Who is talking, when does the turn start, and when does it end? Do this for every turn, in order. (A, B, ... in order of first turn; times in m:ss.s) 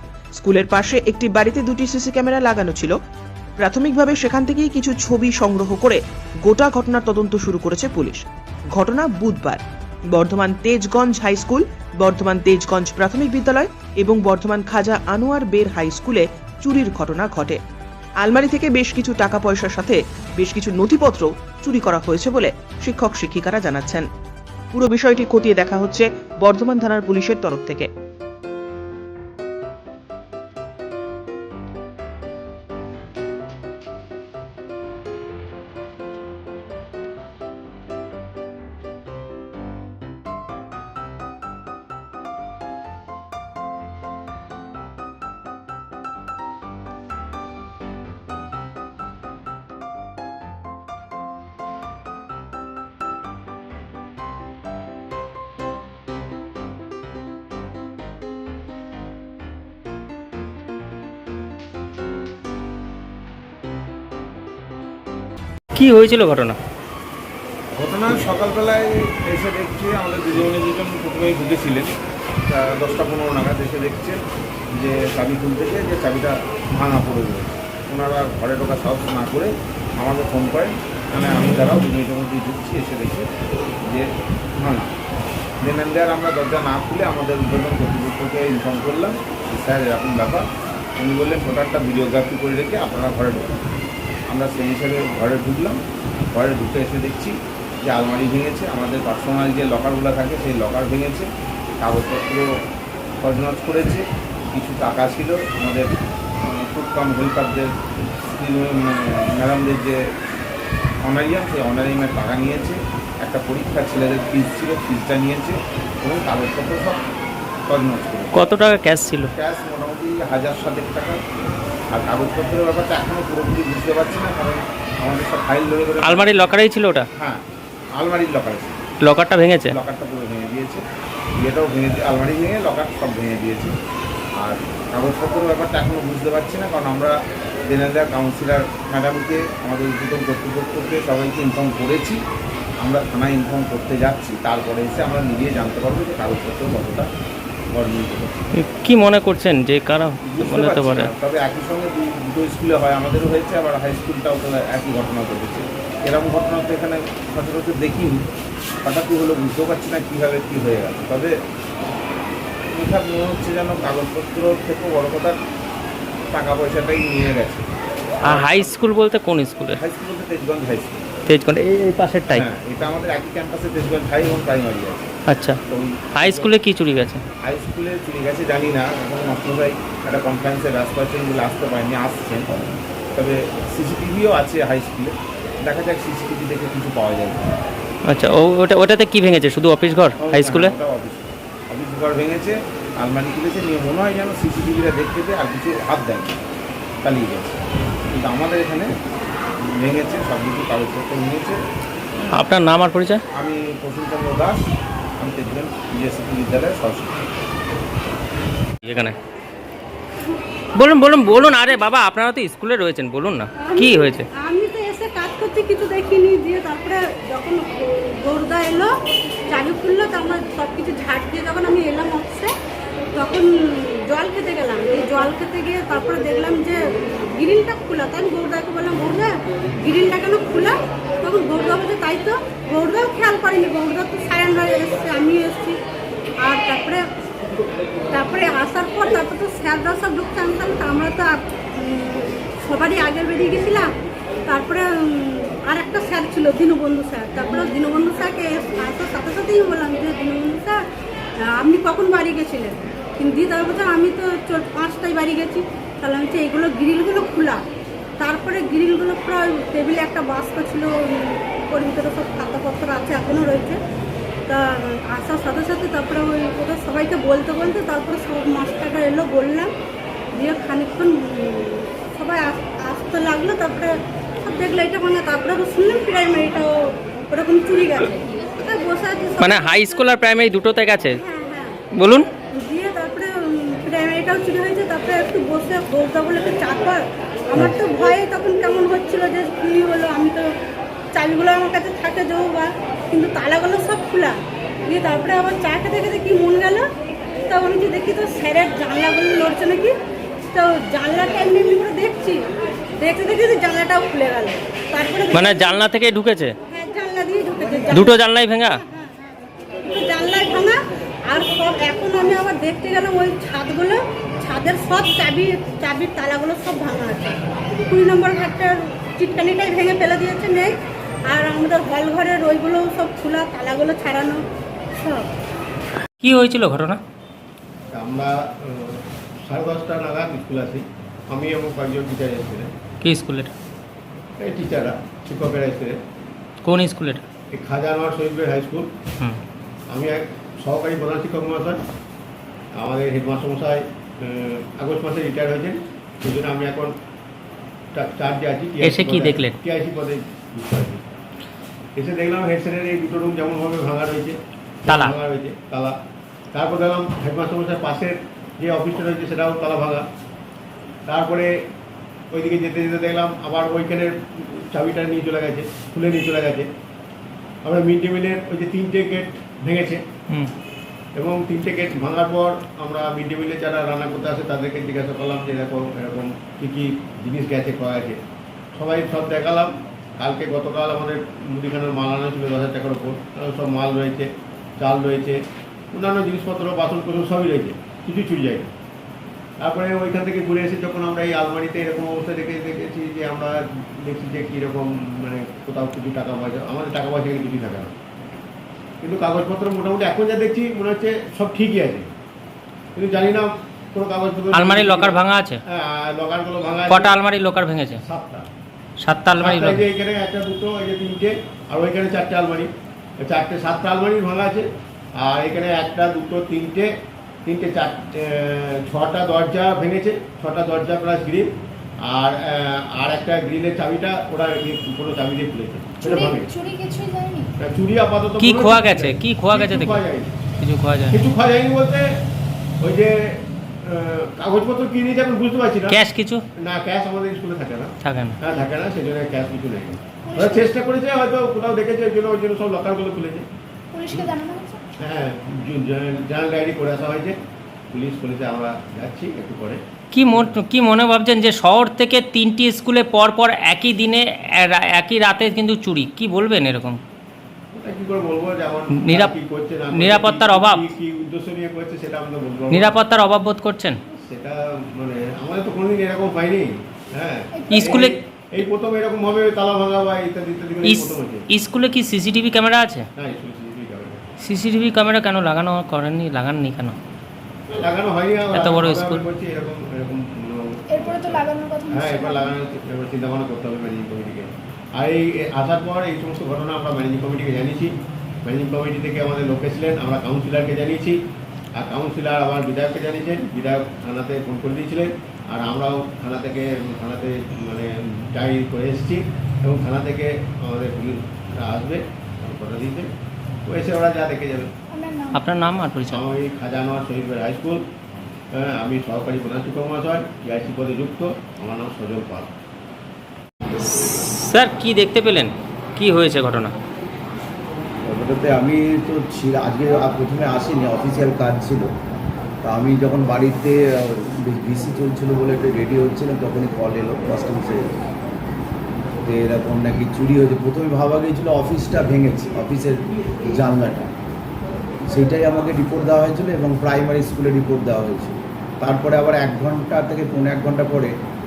0:00.4-0:03.0 A
0:03.6-0:09.6 A
0:10.1-0:17.6 A
0:18.2-0:24.1 A
0:24.7-0:27.9 A
1:05.7-1:06.6 B
1:07.7-1:11.9 C
1:12.5-1:14.2 C
1:14.7-1:23.3 C
1:24.6-1:24.9 C
1:25.6-1:30.4 C
1:31.0-1:33.6 C
1:34.3-1:35.8 C
1:36.3-1:41.3 C
1:41.8-1:42.5 C
1:43.2-1:45.9 C
1:46.4-1:50.0 C
1:51.0-1:57.0 C
1:57.7-1:58.4 C
1:58.3-1:59.3 B
1:59.3-2:01.2 C
2:01.9-2:06.4 C
2:06.0-2:07.1 B
2:08.0-2:08.8 C
2:09.0-2:09.7 B
2:09.7-2:10.8 C
2:11.4-2:13.7 C
2:14.4-2:17.1 C
2:17.6-2:22.2 C
2:22.8-2:27.1 C
2:27.7-2:28.4 C
2:28.6-2:31.1 B
2:30.2-2:38.2 C
2:38.8-2:41.3 C
2:42.7-2:45.4 C
2:46.3-2:47.6 C
2:48.2-2:48.7 C
2:48.2-2:49.8 B
2:49.8-2:51.1 C
2:51.3-2:52.4 B
2:52.3-2:55.1 C
2:55.3-2:55.6 B
2:55.7-2:56.5 C
2:56.2-2:57.2 B
2:57.4-3:02.5 C
3:03.1-3:07.6 C
3:08.0-3:10.7 B
3:10.2-3:16.4 C
3:17.0-3:18.9 C
3:19.6-3:21.6 C
3:22.3-3:23.2 B
3:23.3-3:24.6 C
3:25.2-3:27.3 C
3:28.8-3:29.2 B
3:30.7-3:34.3 B
3:33.6-3:38.9 D
3:39.5-3:42.5 D
3:43.1-3:55.8 D
3:56.4-3:57.0 D
3:58.1-4:03.9 D
4:04.5-4:10.8 D
4:11.4-4:17.6 D
4:18.2-4:23.8 D
4:24.5-4:29.7 D
4:30.3-4:40.1 D
4:39.4-4:41.2 B
4:41.1-4:41.8 D
4:41.9-4:42.3 B
4:42.5-4:50.5 D
4:51.1-4:56.9 D
4:57.4-4:59.9 D
5:00.5-5:02.4 D
5:03.0-5:05.8 D
5:05.3-5:06.5 B
5:06.7-5:08.2 D
5:07.9-5:08.8 B
5:09.9-5:20.7 D
5:21.2-5:24.4 D
5:24.9-5:25.3 D
5:26.2-5:27.0 B
5:27.9-5:32.7 E
5:33.0-5:33.5 B
5:34.4-5:36.0 E
5:36.6-5:37.2 B
5:37.5-5:38.9 E
5:39.9-5:41.8 E
5:42.8-5:46.9 E
5:47.9-5:51.0 E
5:48.8-5:49.5 B
5:52.0-5:56.0 E
5:54.9-5:55.1 B
5:56.5-6:00.1 E
6:01.1-6:01.5 E
6:02.3-6:06.7 E
6:07.6-6:10.0 E
6:11.2-6:18.2 E
6:18.7-6:25.4 E
6:25.9-6:28.7 E
6:29.6-6:37.9 E
6:39.0-6:42.1 E
6:42.9-6:47.2 E
6:44.5-6:45.6 B
6:46.9-6:48.0 B
6:48.0-6:48.5 E
6:49.0-6:49.8 B
6:49.3-6:52.7 E
6:53.2-6:56.9 E
6:57.4-7:06.5 E
7:06.0-7:07.5 F
7:07.6-7:10.3 E
7:08.4-7:10.0 B
7:10.6-7:11.2 B
7:11.1-7:12.2 E
7:12.8-7:16.0 E
7:15.9-7:16.4 B
7:16.6-7:23.5 E
7:18.0-7:18.4 B
7:20.2-7:20.8 F
7:23.9-7:25.0 F
7:25.0-7:27.4 E
7:27.9-7:29.8 E
7:30.1-7:37.0 B
7:30.3-7:30.6 E
7:37.7-7:43.0 E
7:39.0-7:39.3 B
7:39.9-7:40.9 B
7:42.7-7:44.0 B
7:44.2-7:51.4 E
7:47.5-7:48.0 F
7:47.7-7:48.2 B
7:50.8-7:53.0 B
7:53.2-7:54.2 E
7:54.4-7:57.0 B
7:57.7-8:11.2 E
7:58.5-7:59.2 B
8:00.9-8:02.6 F
8:11.7-8:23.1 E
8:23.6-8:24.7 E
8:24.9-8:25.4 F
8:25.3-8:26.2 B
8:26.1-8:27.8 E
8:28.5-8:32.5 E
8:33.8-8:36.7 B
8:38.0-8:41.9 G
8:42.6-8:47.9 G
8:49.2-8:54.1 G
8:55.1-9:01.1 G